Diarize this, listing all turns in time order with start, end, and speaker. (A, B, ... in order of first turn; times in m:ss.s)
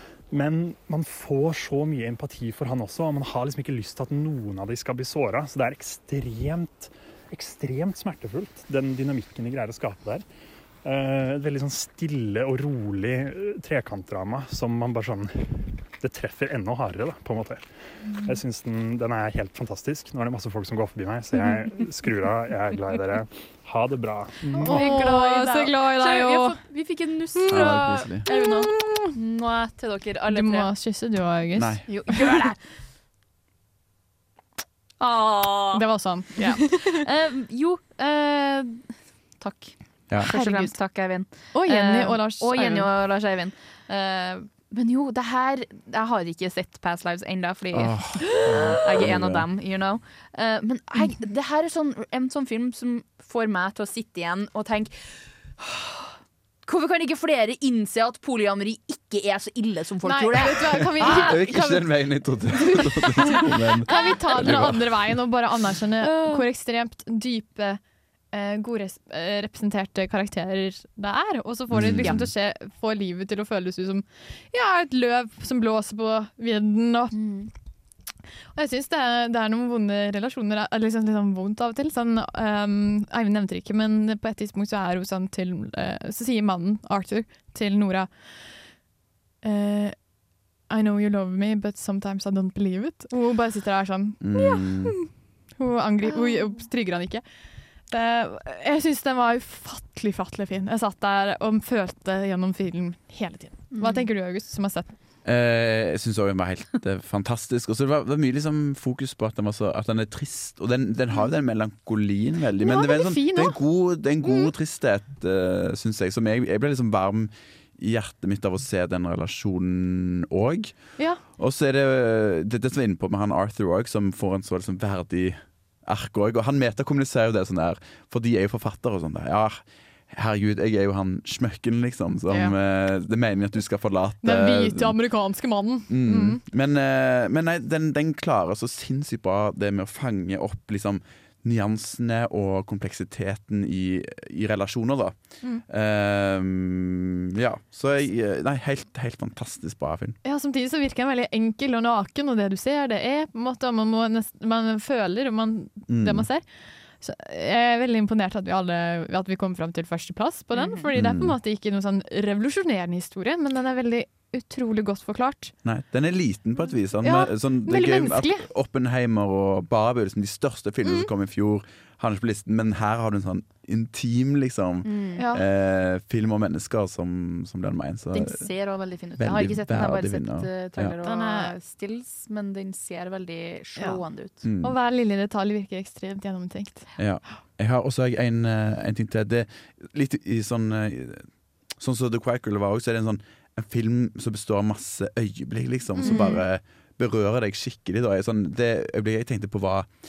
0:00.3-0:10.2 A
0:10.8-0:17.7 A
0:18.2-0:24.6 A
0:24.6-0:30.7 B
0:24.6-0:26.5 C
0:27.4-0:29.2 C
0:27.5-0:28.2 D
0:30.3-0:32.4 C
0:31.5-0:31.8 D
0:31.9-0:32.6 B
0:35.0-0:56.1 B
0:35.7-0:36.9 C
0:40.3-0:40.8 C
0:41.5-0:42.9 C
0:47.7-0:49.4 D
0:48.4-0:48.7 C
0:56.6-1:01.4 B
1:00.0-1:07.8 C
1:01.0-1:05.3 D
1:03.8-1:04.6 B
1:06.0-1:06.4 B
1:08.3-1:17.2 C
1:11.7-1:12.3 D
1:11.8-1:12.2 B
1:17.1-1:17.5 B
1:18.5-1:28.6 C
1:29.4-1:30.0 C
1:30.7-1:35.1 C
1:34.2-1:35.0 D
1:35.6-1:37.2 C
1:36.0-1:36.5 B
1:37.9-1:44.9 C
1:43.7-1:44.1 B
1:45.2-2:15.4 D
1:52.6-1:53.6 C
1:54.2-1:54.5 C
2:14.2-2:16.4 C
2:15.9-2:30.2 D
2:30.2-2:36.5 C
2:35.9-2:36.3 D
2:37.0-2:45.5 C
2:40.5-2:40.9 B
2:41.0-2:41.4 D
2:45.6-2:58.5 D
2:47.0-2:48.5 C
2:50.8-2:51.1 C
2:54.8-2:55.2 B
2:55.2-2:55.4 C
2:58.1-3:04.4 B
2:59.2-3:00.9 D
3:01.0-3:01.5 C
3:03.8-3:04.0 C
3:04.4-3:04.8 D
3:04.6-3:06.9 C
3:07.0-3:19.9 D
3:16.0-3:16.4 C
3:16.0-3:16.4 B